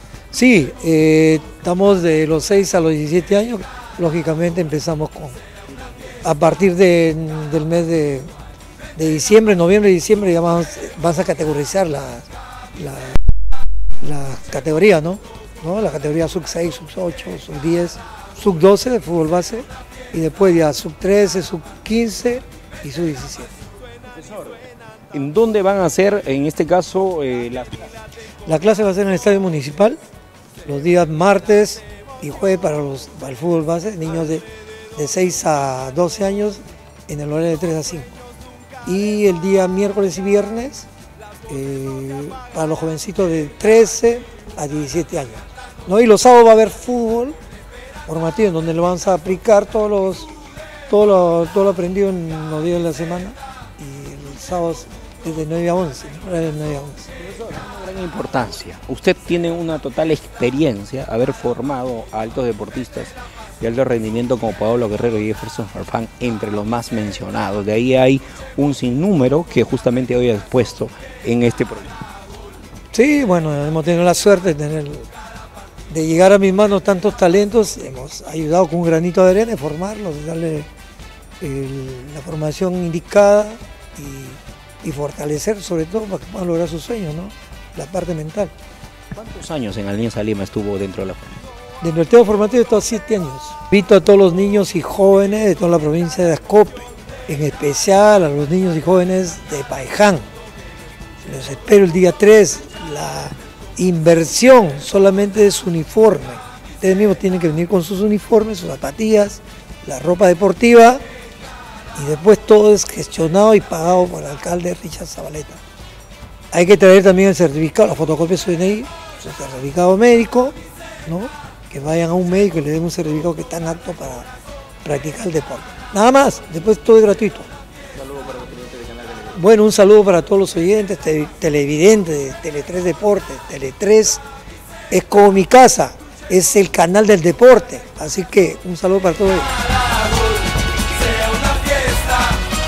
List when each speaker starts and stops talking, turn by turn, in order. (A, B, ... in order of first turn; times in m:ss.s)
0:00.3-0:05.4 A
0:06.2-0:08.3 A
0:09.0-0:13.1 A
0:14.0-0:23.5 A
0:24.1-0:24.6 B
0:25.1-0:27.9 B
0:28.4-0:30.0 A
0:30.6-0:38.2 A
0:38.8-0:40.9 A
0:41.5-0:47.4 A
0:48.1-0:50.3 A
0:50.9-0:57.1 A
0:57.2-1:12.0 B
1:12.9-1:15.1 A
1:15.9-1:20.7 A
1:21.4-1:28.5 A
1:29.1-1:31.3 B
1:31.8-1:40.3 A
1:41.2-1:51.0 A
1:51.9-1:55.6 A
1:56.5-2:04.3 A
2:04.8-2:07.5 A
2:08.0-2:09.3 B
2:09.3-2:14.2 A
2:14.9-2:19.5 A
2:21.1-2:22.1 B